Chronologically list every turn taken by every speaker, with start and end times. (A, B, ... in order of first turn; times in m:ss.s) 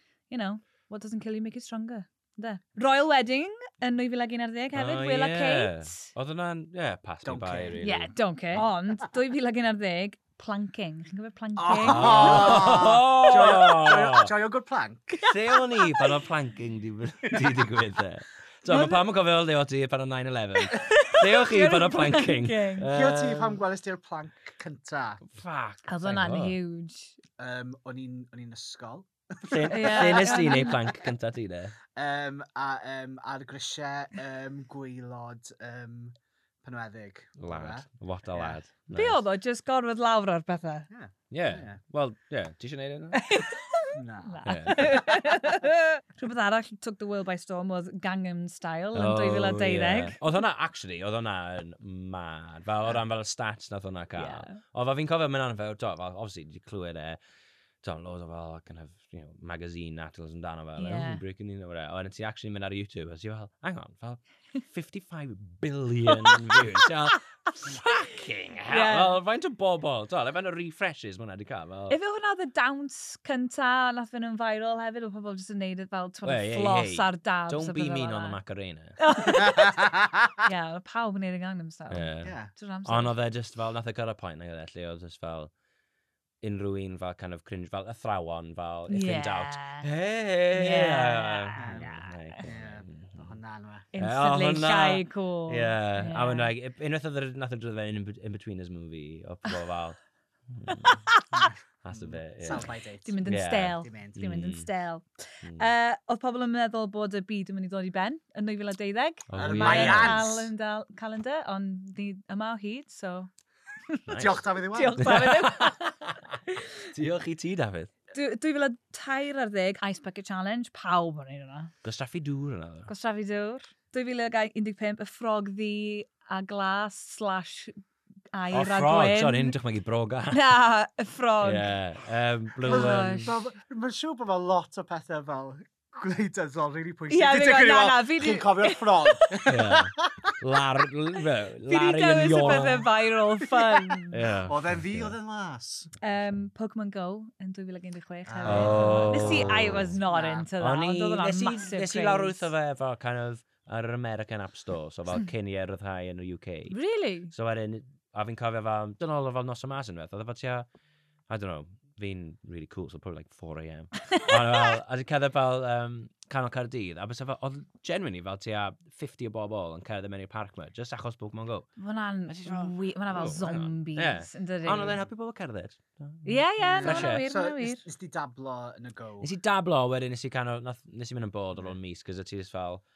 0:00.3-0:06.1 A
0:04.7-0:08.6 B
0:07.2-0:07.8 C
0:07.8-0:12.8 A
0:11.6-0:15.2 C
0:11.8-0:14.3 B
0:15.2-0:16.2 A
0:15.2-0:23.6 B
0:17.3-0:17.7 C
0:18.7-0:19.0 A
0:20.6-0:22.9 A
0:22.9-0:25.2 C
0:25.3-0:26.6 B
0:25.9-0:27.2 A
0:27.4-0:31.0 C
0:29.5-0:31.8 B
0:29.7-0:30.8 A
0:31.9-0:38.6 C
0:37.4-0:39.2 B
0:38.9-0:40.9 A
0:40.9-0:41.8 C
0:41.3-0:43.4 B
0:43.1-0:50.2 A
0:43.9-0:45.0 C
0:44.4-0:45.0 B
0:48.9-0:57.2 B
0:54.2-0:54.6 A
0:57.8-1:12.0 B
1:00.8-1:01.2 A
1:06.1-1:07.2 A
1:08.7-1:09.2 A
1:11.9-1:18.4 A
1:16.2-1:19.0 B
1:19.0-1:19.8 A
1:19.4-1:20.4 C
1:20.4-1:23.2 A
1:21.9-1:25.5 B
1:22.2-1:22.5 C
1:26.4-1:33.4 B
1:28.9-1:29.9 A
1:30.5-1:32.4 A
1:31.6-1:33.9 C
1:33.9-1:36.5 A
1:34.0-1:41.0 B
1:40.7-1:41.5 A
1:41.3-1:43.2 C
1:41.8-1:42.7 B
1:43.0-1:53.3 A
1:43.2-1:44.7 B
1:43.8-1:44.2 C
1:45.4-1:45.7 B
1:49.3-1:50.3 B
1:49.3-1:50.5 C
1:53.9-1:56.8 A
1:54.1-1:54.4 B
1:54.1-1:55.2 C
1:55.0-1:56.4 B
1:56.9-1:57.9 B
1:58.1-2:01.7 A
2:01.8-2:02.9 B
2:02.9-2:07.8 A
2:08.3-2:09.6 A
2:08.5-2:10.5 B
2:10.3-2:11.8 A
2:11.4-2:13.3 B
2:12.6-2:13.3 A
2:12.6-2:20.4 C
2:17.1-2:19.5 A
2:19.5-2:22.9 B
2:21.7-2:24.2 A
2:23.4-2:25.9 C
2:24.1-2:25.1 B
2:26.0-2:32.5 A
2:28.2-2:30.5 C
2:28.4-2:30.0 B
2:30.6-2:36.8 B
2:36.7-2:37.3 A
2:37.3-2:40.6 B
2:41.3-2:51.7 B
2:44.0-2:44.7 A
2:51.8-2:55.0 A
2:52.3-2:57.2 B
2:56.2-2:57.8 A
2:56.6-2:59.3 C
2:59.2-3:02.8 B